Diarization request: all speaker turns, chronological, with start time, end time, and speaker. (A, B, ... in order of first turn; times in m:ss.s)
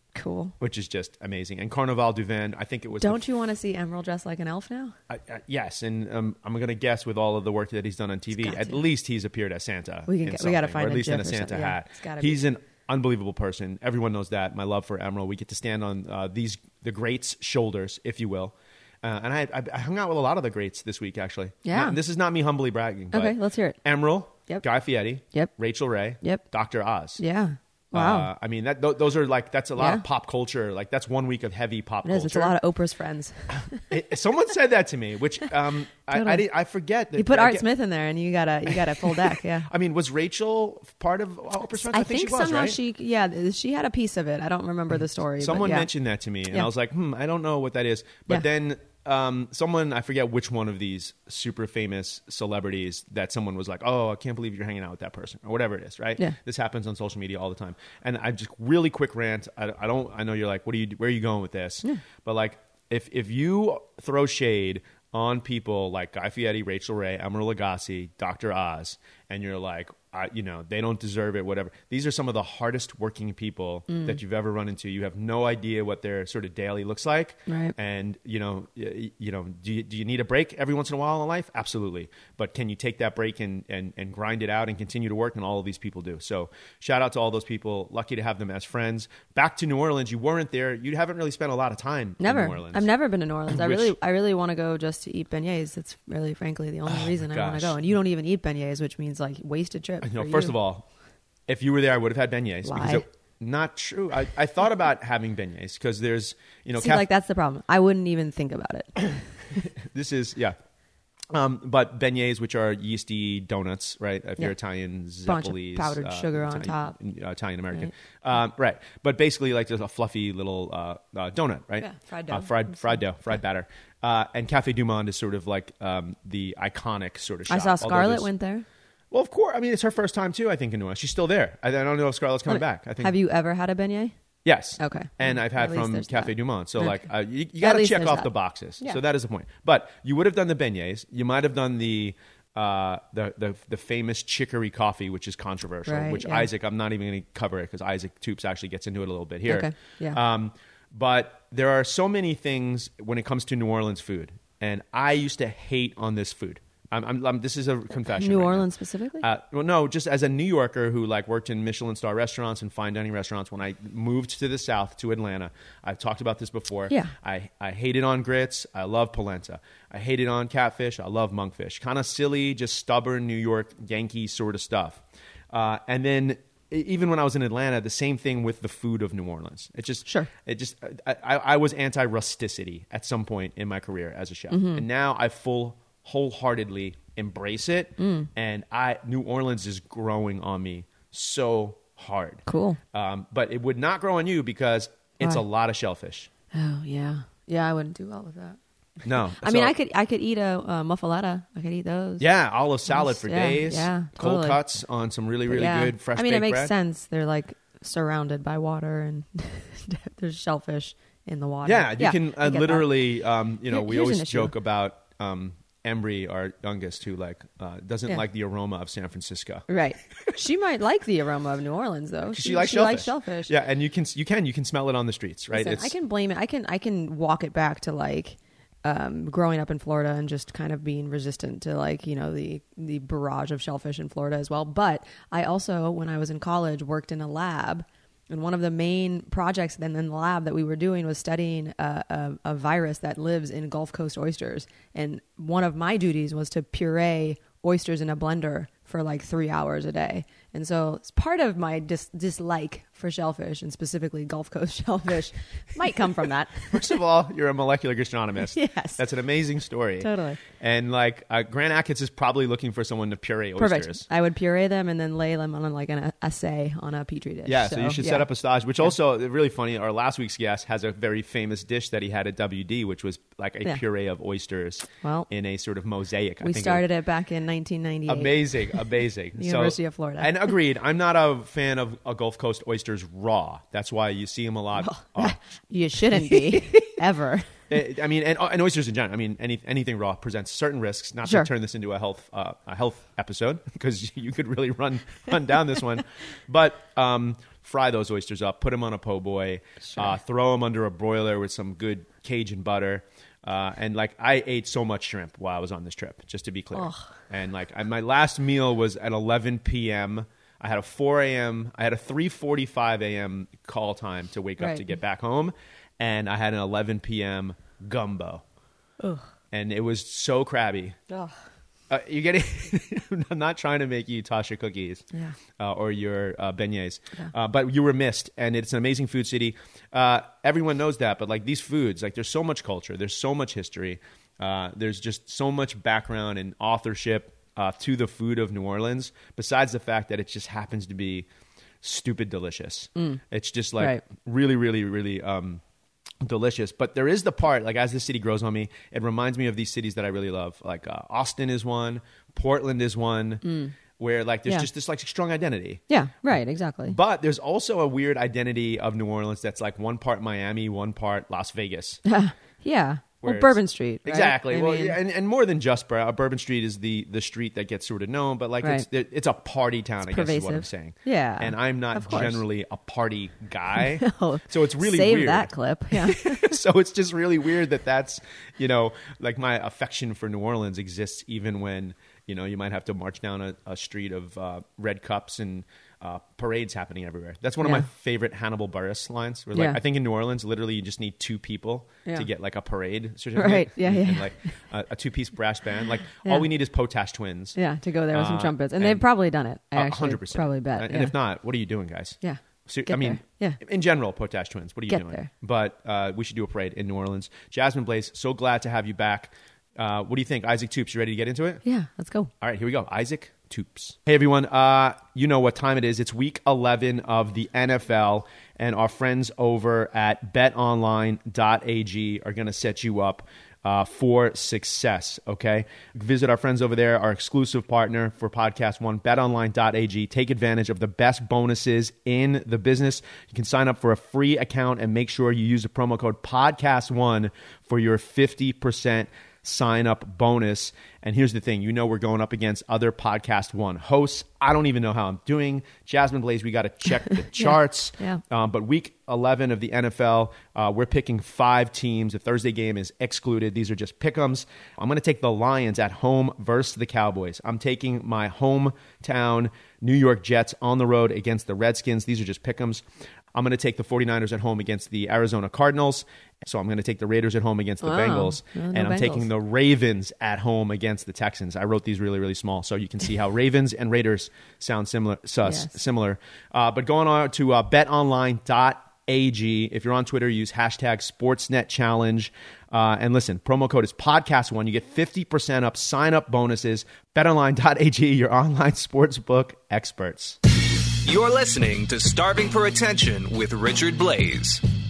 0:00.2-0:00.5 A
0:00.6-0:03.2 B
0:03.0-0:05.0 A
0:05.1-0:27.2 B
0:08.4-0:08.8 A
0:10.1-0:12.4 A
0:21.6-0:22.0 A
0:23.1-0:23.8 A
0:27.2-0:28.3 A
0:27.9-0:32.6 B
0:29.8-0:30.0 A
0:32.0-0:33.9 A
0:33.8-0:37.7 B
0:36.1-0:36.5 A
0:37.1-0:39.7 A
0:38.7-0:42.8 B
0:41.8-0:45.9 A
0:45.4-1:32.9 B
1:13.9-1:14.2 A
1:17.5-1:17.8 A
1:32.2-1:40.6 A
1:33.5-1:34.0 B
1:36.9-1:37.8 B
1:40.0-1:40.9 B
1:41.5-1:47.1 B
1:42.6-1:43.0 A
1:46.8-1:49.6 A
1:49.8-1:50.6 B
1:51.3-2:08.3 B
1:55.3-1:57.0 A
2:01.8-2:03.0 A
2:07.5-2:08.7 A
2:09.1-2:13.1 B
2:12.5-2:14.1 A
2:14.4-2:38.7 B
2:14.8-2:17.1 A
2:17.6-2:19.0 A
2:25.9-2:26.5 A
2:29.5-2:30.2 A
2:38.2-2:39.2 A
2:39.2-3:16.3 B
3:00.1-3:00.3 A
3:04.5-3:04.8 A
3:08.0-3:08.3 A
3:12.5-3:12.8 A
3:16.5-3:18.6 A
3:19.0-3:19.7 B
3:19.1-3:22.3 A
3:22.2-3:26.7 B
3:22.9-3:24.6 A
3:25.5-3:34.6 A
3:31.6-3:39.7 B
3:39.7-3:43.5 A
3:42.3-3:45.9 B
3:45.5-4:16.9 A
4:16.7-4:24.1 B
4:18.5-4:19.0 A
4:20.0-4:20.4 A
4:23.6-4:28.3 A
4:27.5-4:36.8 B
4:35.0-4:35.3 A
4:36.4-4:40.6 A
4:38.1-4:45.4 B
4:44.8-4:47.5 A
4:46.1-4:46.8 B
4:47.7-5:18.4 B
5:06.8-5:07.1 A
5:14.6-5:14.9 A
5:19.5-5:21.0 B
5:21.9-5:25.0 B
5:25.6-5:41.3 B
5:41.8-5:45.6 B
5:46.2-5:53.4 B
5:53.4-5:53.8 A
5:54.0-5:55.8 B
5:55.9-5:57.0 A
5:56.9-6:02.0 B
6:02.0-6:05.0 A
6:03.2-6:37.6 B
6:10.1-6:12.4 A
6:13.8-6:16.5 A
6:27.6-6:27.9 A
6:29.5-6:29.8 A
6:33.4-6:34.3 A
6:37.6-6:41.2 A
6:38.1-6:39.0 B
6:39.7-6:51.6 B
6:42.2-6:43.6 A
6:44.9-6:45.3 A
6:51.6-6:52.3 A
6:52.4-8:10.4 B
7:27.4-7:28.2 A
7:47.8-7:49.3 A
7:55.4-7:55.7 A
8:11.0-8:14.6 C